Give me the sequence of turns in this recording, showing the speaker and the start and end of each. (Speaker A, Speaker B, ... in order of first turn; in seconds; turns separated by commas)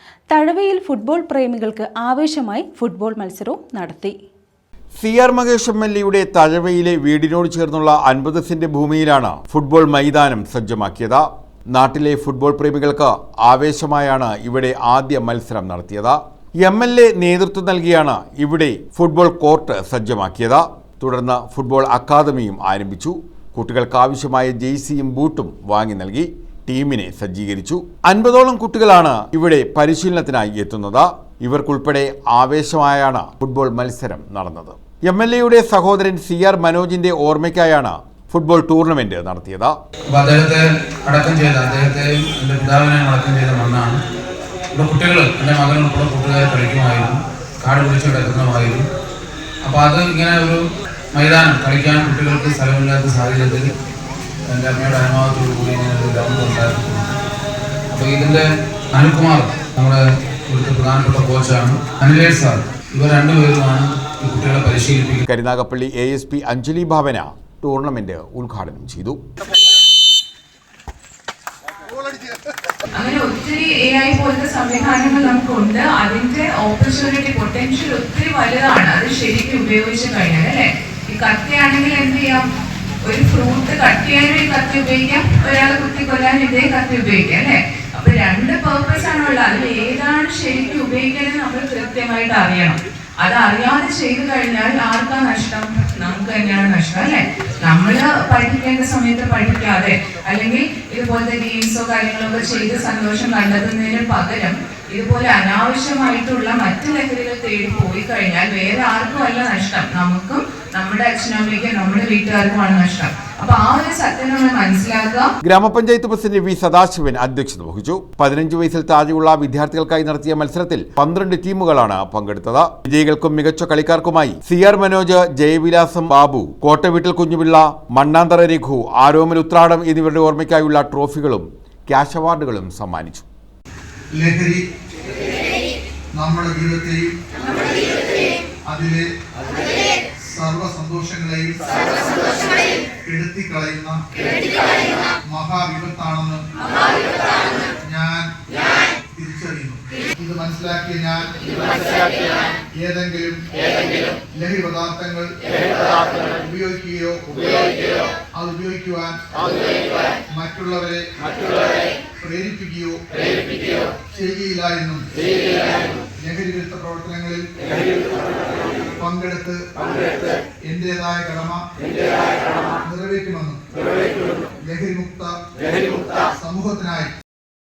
Speaker A: 0.3-4.2, Speaker B: 5.0-39.7, Speaker C: 40.1-44.0, Speaker C: 44.7-48.9, Speaker C: 49.6-50.6, Speaker C: 51.1-53.7, Speaker C: 54.5-57.1, Speaker C: 57.9-65.2, Speaker B: 65.2-69.2, Speaker D: 72.9-82.4, Speaker D: 83.0-115.3, Speaker B: 115.4-133.2, Speaker E: 134.1-134.6, Speaker E: 136.2-137.1, Speaker E: 138.7-139.0, Speaker E: 140.2-142.3, Speaker E: 143.1-144.0, Speaker E: 145.3-146.4, Speaker E: 147.8-148.2, Speaker E: 149.1-151.8, Speaker E: 152.8-153.4, Speaker E: 154.3-155.3, Speaker E: 156.2-159.6, Speaker E: 160.3-161.0, Speaker E: 162.2-165.1, Speaker E: 166.2-167.4, Speaker E: 169.0-169.7, Speaker E: 170.7-171.7, Speaker E: 172.8-173.6, Speaker E: 174.6-175.3, Speaker E: 176.3-177.2